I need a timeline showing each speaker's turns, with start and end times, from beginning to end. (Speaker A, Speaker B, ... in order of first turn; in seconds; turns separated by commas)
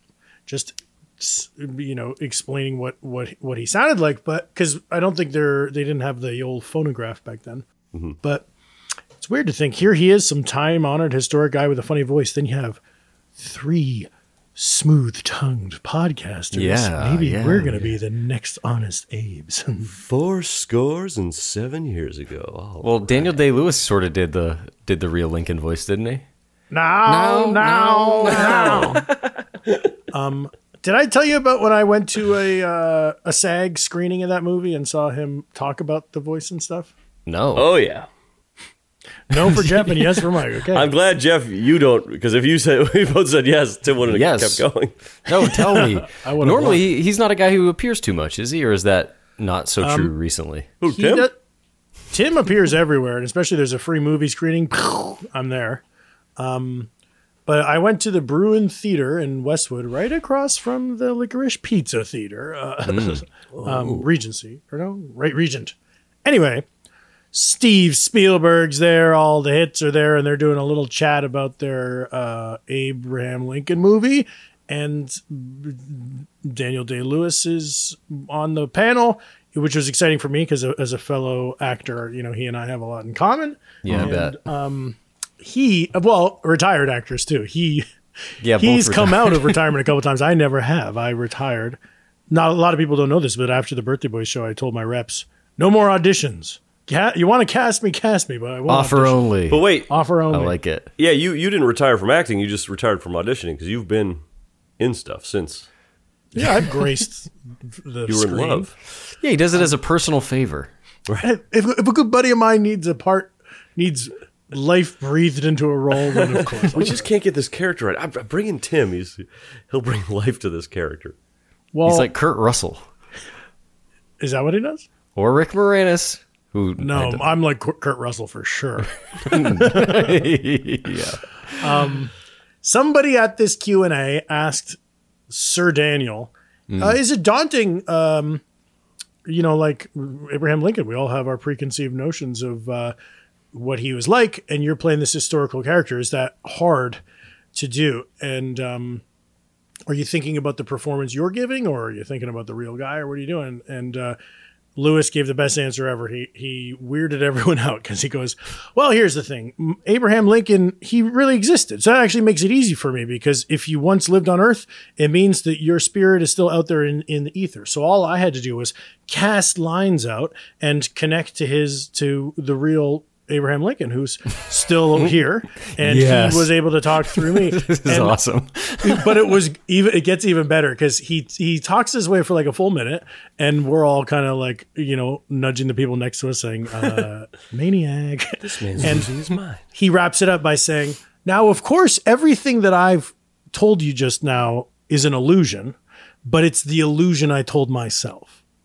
Speaker A: 0.5-7.6, Speaker B: 7.9-8.2, Speaker A: 8.2-8.5, Speaker A: 9.2-12.8, Speaker A: 13.4-19.9, Speaker C: 16.5-17.9, Speaker B: 19.9-23.1, Speaker C: 22.8-26.2, Speaker A: 26.7-29.0, Speaker C: 27.0-29.0, Speaker A: 30.1-36.9, Speaker C: 37.2-37.7, Speaker B: 37.5-38.1, Speaker A: 39.3-40.9, Speaker C: 39.4-40.0, Speaker B: 40.7-44.9, Speaker C: 44.1-44.6, Speaker C: 45.3-50.7, Speaker A: 45.7-46.8, Speaker A: 49.8-50.1, Speaker B: 50.8-51.3, Speaker A: 50.8-51.3, Speaker A: 52.1-55.8, Speaker A: 56.4-56.9, Speaker A: 57.5-66.6, Speaker C: 62.9-64.0, Speaker A: 67.3-87.8, Speaker C: 83.8-84.4, Speaker C: 88.4-89.6, Speaker A: 88.5-91.8, Speaker A: 92.3-99.2, Speaker C: 98.7-100.9, Speaker B: 99.5-99.9, Speaker A: 99.9-100.6, Speaker B: 101.0-104.2, Speaker B: 104.8-105.7, Speaker A: 106.3-108.7, Speaker B: 108.1-108.7, Speaker C: 109.2-110.7, Speaker A: 111.2-117.0, Speaker B: 116.7-121.1, Speaker A: 121.7-122.1, Speaker C: 121.8-122.8, Speaker A: 124.2-124.8, Speaker C: 125.2-127.2, Speaker A: 126.8-130.1, Speaker C: 129.2-131.7, Speaker A: 131.6-132.1, Speaker A: 132.6-134.8, Speaker A: 135.3-138.4, Speaker C: 136.7-137.0, Speaker A: 139.2-142.9, Speaker A: 143.5-147.0, Speaker A: 147.5-149.0, Speaker A: 149.9-154.2, Speaker A: 154.8-178.2, Speaker C: 175.8-179.3, Speaker A: 178.8-189.1, Speaker B: 188.4-189.6, Speaker A: 189.7-198.3